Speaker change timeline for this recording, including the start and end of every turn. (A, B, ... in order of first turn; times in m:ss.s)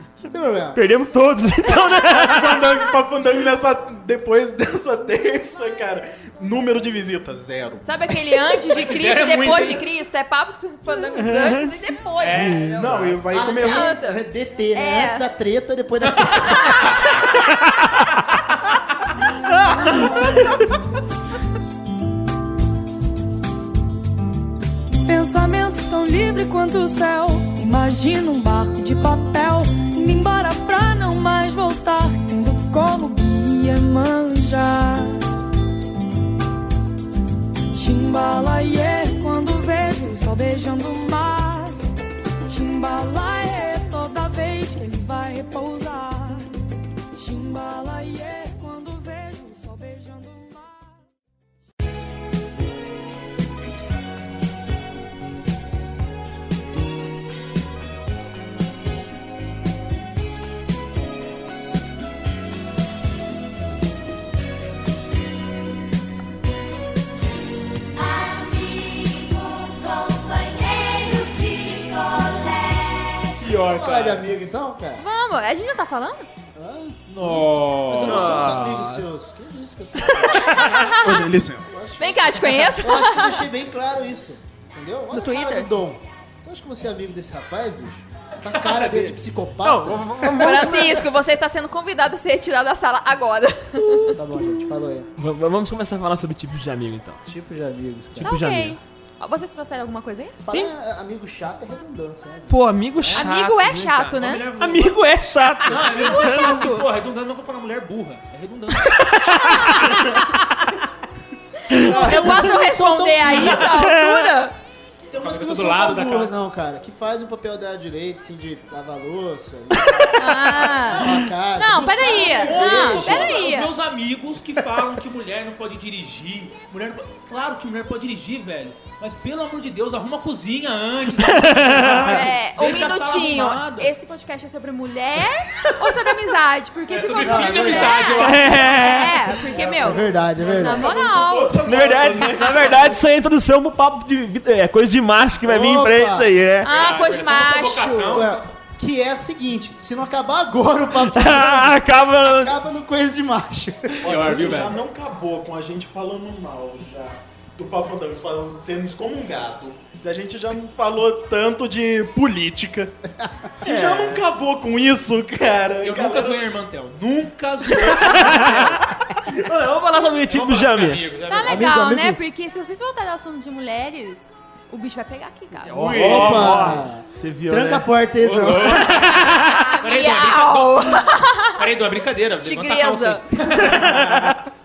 0:00.3-0:00.8 A
0:00.7-0:02.8 B
0:02.1-0:08.1 C
0:07.8-0:15.3 D
0:08.6-0:09.9 E
0:11.0-0:13.0 B
0:12.2-0:13.2 E
0:12.8-0:14.0 C
0:13.3-0:16.8 A
0:16.0-0:17.0 E
0:19.9-0:20.6 B
0:25.1-0:35.2 F
0:37.7-0:41.8 F
0:42.5-0:46.5 F
0:47.1-0:51.0 F
1:08.0-1:13.3 D
1:13.4-1:14.3 E
1:13.5-1:15.0 A
1:15.0-1:16.3 D
1:16.6-1:20.6 A
1:17.1-1:18.5 E
1:18.0-1:19.1 B
1:20.3-1:21.0 B
1:20.3-1:21.1 D
1:21.0-1:21.7 C
1:21.6-1:30.7 A
1:22.0-1:23.4 D
1:25.1-1:25.7 D
1:28.5-1:29.2 E
1:29.6-1:31.1 B
1:30.4-1:34.2 D
1:33.8-1:34.6 B
1:34.1-1:35.1 A
1:35.2-1:37.2 B
1:37.2-1:38.4 A
1:38.2-1:38.8 B
1:38.2-1:40.4 D
1:40.4-1:43.2 A
1:42.5-1:44.0 B
1:43.1-1:44.5 D
1:43.8-1:45.0 E
1:44.6-1:46.7 B
1:45.6-1:49.0 E
1:45.7-1:46.9 D
1:48.8-1:50.2 B
1:49.4-1:50.0 D
1:51.7-1:54.6 D
1:51.7-1:52.4 B
1:51.8-1:53.8 A
1:53.8-1:54.4 B
1:55.1-2:03.4 A
1:55.2-1:56.4 E
2:00.1-2:03.7 D
2:02.0-2:13.9 E
2:11.2-2:12.1 B
2:12.1-2:22.3 D
2:16.9-2:18.8 E
2:17.2-2:18.3 A
2:18.2-2:19.4 B
2:19.5-2:20.9 A
2:20.4-2:23.0 C
2:21.6-2:26.9 B
2:25.4-2:26.3 A
2:26.6-2:28.2 D
2:26.7-2:28.6 E
2:28.1-2:34.5 A
2:31.0-2:32.6 B
2:34.0-2:42.9 C
2:34.0-2:34.8 E
2:43.6-2:46.4 C
2:43.6-2:44.2 B
2:45.8-2:48.8 E
2:47.8-2:51.0 B
2:48.1-2:48.7 C
2:50.3-2:51.7 E
2:51.3-2:55.9 D
2:51.4-2:52.3 A
2:55.6-2:57.9 B
2:55.8-2:56.7 C
2:55.8-2:56.7 E
2:55.9-2:58.9 A
2:58.2-3:04.4 E
2:58.7-2:59.6 B
2:59.3-3:01.7 D
3:02.4-3:03.3 D
3:03.6-3:04.3 B